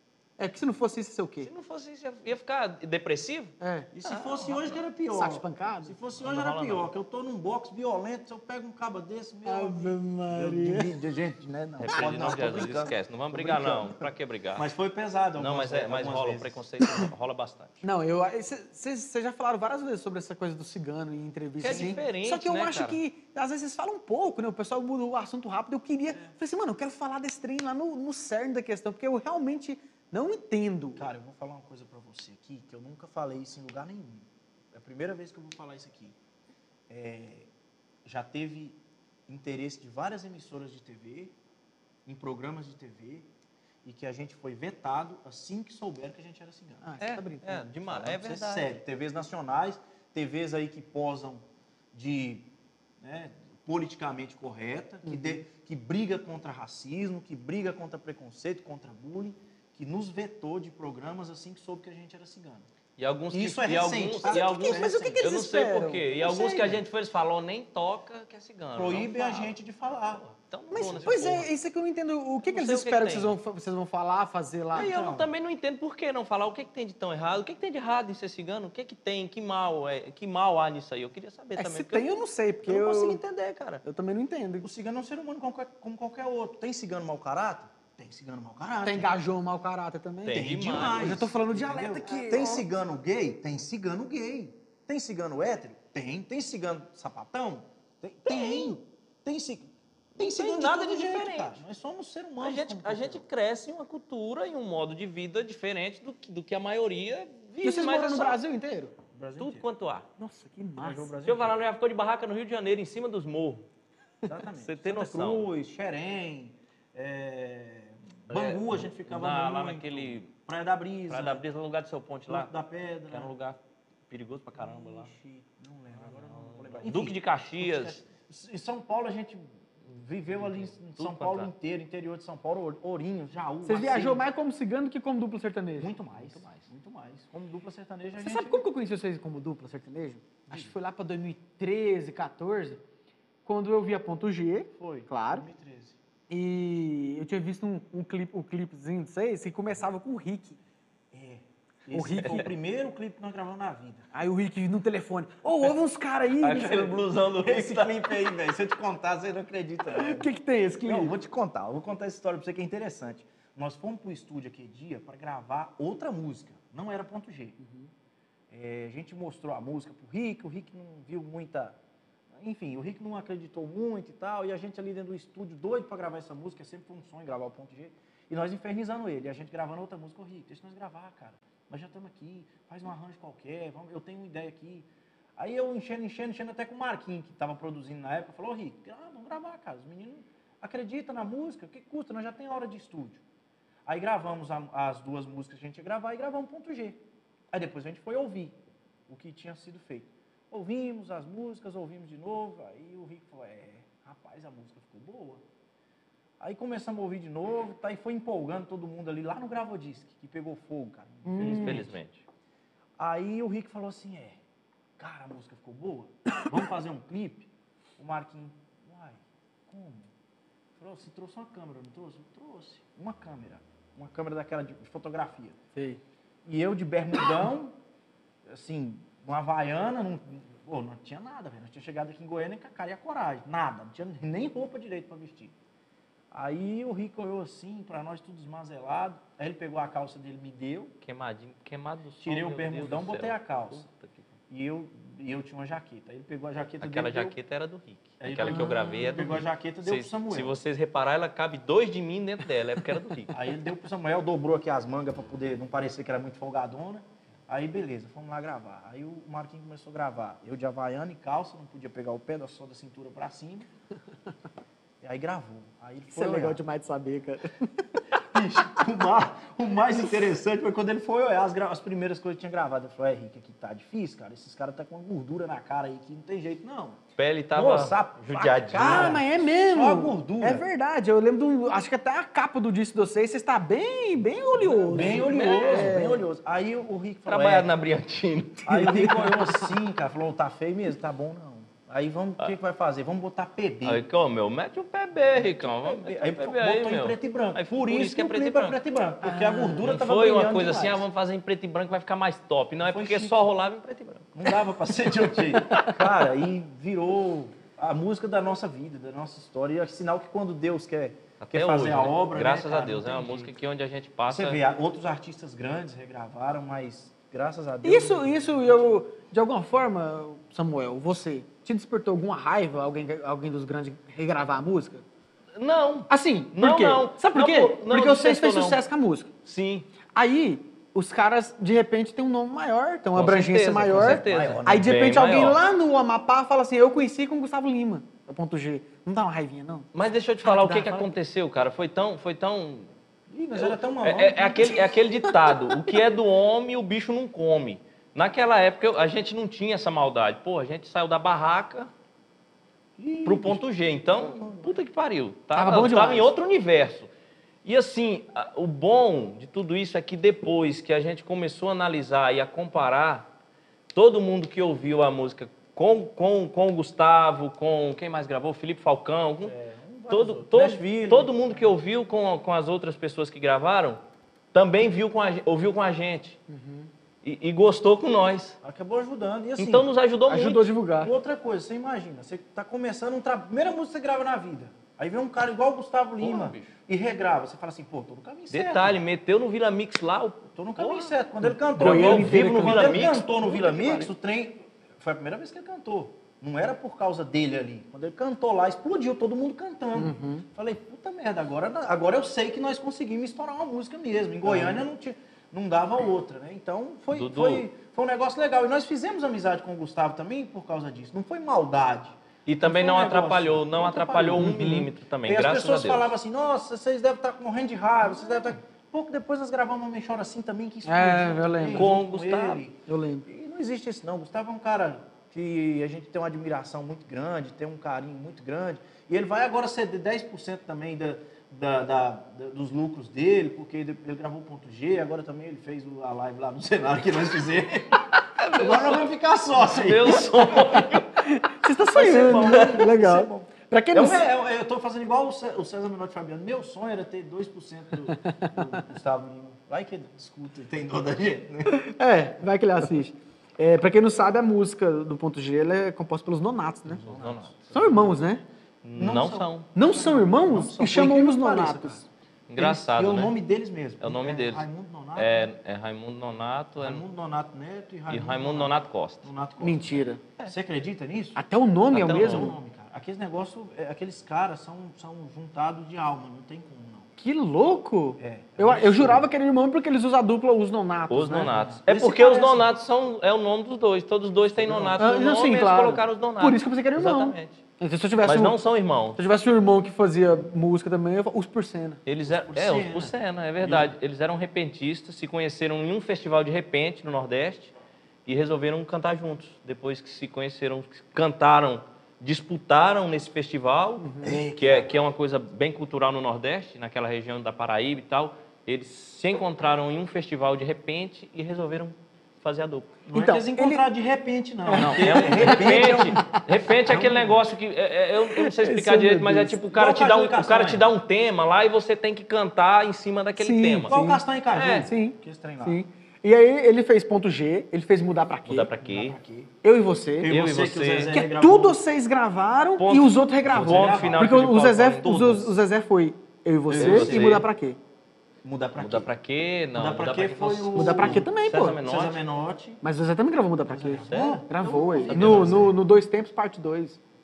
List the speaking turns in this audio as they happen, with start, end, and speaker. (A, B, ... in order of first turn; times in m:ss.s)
0:00.4-0:01.5 A
0:01.4-0:04.8 B
0:03.6-0:03.9 A
0:04.0-0:16.6 C
0:05.1-0:06.0 A
0:06.2-0:06.9 B
0:09.4-0:11.0 A
0:11.8-0:14.7 B
0:11.9-0:12.8 A
0:15.4-0:17.8 B
0:17.8-0:31.0 A
0:21.6-0:23.0 B
0:21.6-0:22.0 C
0:31.0-0:36.2 C
0:36.9-0:37.5 C
0:38.0-0:41.4 C
0:42.0-0:43.3 C
0:43.8-0:46.9 C
0:46.8-0:47.7 A
0:47.0-0:48.7 B
0:47.8-0:52.5 C
0:53.0-1:02.7 C
0:55.0-0:55.4 A
1:03.0-1:09.6 B
1:03.3-1:05.2 C
1:04.2-1:06.8 A
1:08.7-1:10.2 C
1:10.1-1:11.5 B
1:10.7-1:14.9 A
1:10.8-1:11.5 C
1:12.4-1:13.4 B
1:14.7-1:15.3 C
1:14.7-1:22.1 B
1:21.6-1:23.2 A
1:22.6-1:23.8 B
1:23.8-1:24.7 A
1:24.6-1:29.2 C
1:28.8-1:32.6 A
1:30.2-1:31.2 B
1:30.3-1:43.2 C
1:38.2-1:38.7 B
1:40.4-1:41.6 B
1:42.4-1:48.4 B
1:47.6-1:48.9 A
1:49.1-1:49.6 C
1:49.4-1:50.1 B
1:50.2-1:51.1 A
1:50.8-1:51.5 C
1:51.2-1:53.7 B
1:54.2-2:01.4 C
1:54.6-1:55.5 B
1:58.3-2:00.3 B
2:01.1-2:02.5 B
2:02.3-2:03.3 C
2:03.1-2:05.1 B
2:04.6-2:14.2 C
2:06.1-2:08.0 B
2:10.4-2:11.5 B
2:13.6-2:15.9 A
2:15.8-2:18.6 C
2:16.1-2:16.6 B
2:18.2-2:22.8 A
2:20.5-2:20.7 C
2:23.4-2:25.4 A
2:24.7-2:26.0 C
2:26.3-2:30.6 A
2:31.1-2:34.1 C
2:31.9-2:32.5 A
2:34.1-2:37.0 A
2:36.4-2:38.3 B
2:36.8-2:40.3 C
2:39.8-2:41.1 A
2:40.8-2:47.6 C
2:47.6-2:47.9 A
2:48.5-2:51.8 C
2:52.3-3:13.2 C
3:13.8-3:17.0 C
3:17.5-3:18.6 C
3:19.1-3:25.4 C
3:26.4-3:32.0 C
3:31.2-3:31.9 A
3:31.4-3:32.2 B
3:33.0-3:34.4 C
3:35.0-3:40.1 C
3:40.8-3:45.6 C
3:45.7-3:46.0 A
3:46.4-3:47.7 C
3:48.4-3:55.5 C
3:56.3-4:00.9 C
4:01.0-4:04.2 B
4:02.2-4:03.9 C
4:04.5-4:07.3 C
4:06.8-4:13.3 B
4:08.2-4:10.6 C
4:08.4-4:09.4 A
4:13.3-4:23.7 C
4:25.0-4:26.6 C
4:26.1-4:28.0 A
4:28.2-4:37.0 C
4:37.2-4:39.2 B
4:37.5-4:40.7 C
4:38.8-4:46.2 A
4:44.6-4:46.0 B
4:44.8-4:47.7 C
4:47.3-4:49.7 B
4:48.6-4:54.0 C
4:53.8-4:58.8 B
4:55.3-5:01.0 C
4:59.2-4:59.8 A
4:59.6-5:04.3 B
5:02.8-5:03.4 C
5:04.3-5:13.5 C
5:05.5-5:06.0 B
5:11.4-5:14.6 B
5:14.3-5:18.7 C
5:17.8-5:25.0 A
5:25.6-5:28.8 B
5:26.1-5:29.3 A
5:29.4-5:29.9 B
5:30.1-5:39.9 A
5:33.2-5:35.6 B
5:33.9-5:34.9 C
5:39.9-5:42.9 B
5:40.4-5:41.1 A
5:43.3-5:44.9 C
5:43.5-5:51.9 B
5:45.2-5:45.9 A
5:53.0-5:54.8 C
5:53.2-5:57.1 B
5:55.5-5:56.3 A
5:57.6-6:03.3 B
6:03.9-6:09.5 B
6:09.4-6:11.8 C
6:10.1-6:14.0 B
6:14.5-6:16.4 B
6:16.5-6:16.9 A
6:17.2-6:18.6 B
6:18.6-6:19.9 C
6:19.6-6:20.7 B
6:20.3-6:21.1 A
6:20.9-6:29.0 C
6:26.2-6:26.8 B
6:28.5-6:31.1 B
6:30.6-6:54.6 C
6:31.7-6:33.0 A
6:31.7-6:34.1 B
6:40.0-6:40.4 A
6:44.4-6:44.8 A
6:47.1-6:47.6 B
6:52.4-6:56.1 B
6:54.4-6:54.9 A
6:55.2-7:21.0 C
7:00.8-7:01.9 A
7:01.7-7:02.6 B
7:02.9-7:03.2 A
7:18.4-7:19.0 B
7:19.6-7:21.2 B
7:20.8-7:24.2 A
7:21.9-7:31.8 C
7:22.0-7:22.9 B
7:28.2-7:28.8 A
7:31.7-7:37.0 A
7:36.9-7:38.1 C
7:37.0-7:37.5 B
7:37.7-7:38.4 A
7:38.8-7:39.7 B
7:39.0-7:42.1 C
7:39.7-7:42.0 A
7:42.5-7:43.3 B
7:42.6-7:45.5 C
7:44.0-7:47.0 B
7:46.8-7:51.4 C
7:48.1-7:49.2 B
7:49.6-7:50.2 A
7:51.4-7:52.5 A
7:51.9-7:52.5 B
7:51.9-7:57.1 C
7:57.2-8:01.5 A
7:58.2-7:59.2 C
8:01.1-8:07.6 B
8:01.3-8:02.7 C
8:04.6-8:05.0 C
8:05.0-8:08.6 A
8:08.2-8:09.2 B
8:09.1-8:12.0 A
8:12.0-8:17.7 B
8:12.3-8:13.9 C
8:18.2-8:32.9 B
8:24.0-8:24.4 A
8:24.2-8:24.9 C
8:33.0-8:36.2 C
8:33.1-8:33.9 A
8:34.7-8:36.4 A
8:34.7-8:44.0 B
8:36.8-8:37.4 C
8:38.2-8:39.6 A
8:39.7-8:40.8 C
8:43.4-8:44.2 A
8:43.9-8:45.8 C
8:44.5-8:44.9 B
8:44.7-8:48.7 A
8:48.5-8:49.2 B
8:48.8-8:49.5 C
8:49.6-8:50.3 A
8:50.2-8:51.8 C
8:50.3-8:51.1 B
8:51.1-8:57.8 A
8:52.8-8:55.4 B
8:53.4-8:54.3 C
8:55.1-8:55.4 C
8:56.7-8:57.4 C
8:56.7-8:57.4 B
8:58.4-8:59.1 C
8:58.8-9:02.2 B
8:59.7-9:02.8 C
9:00.7-9:01.8 A
9:02.8-9:07.0 A
9:03.6-9:05.7 C
9:04.0-9:04.4 B
9:05.0-9:05.7 B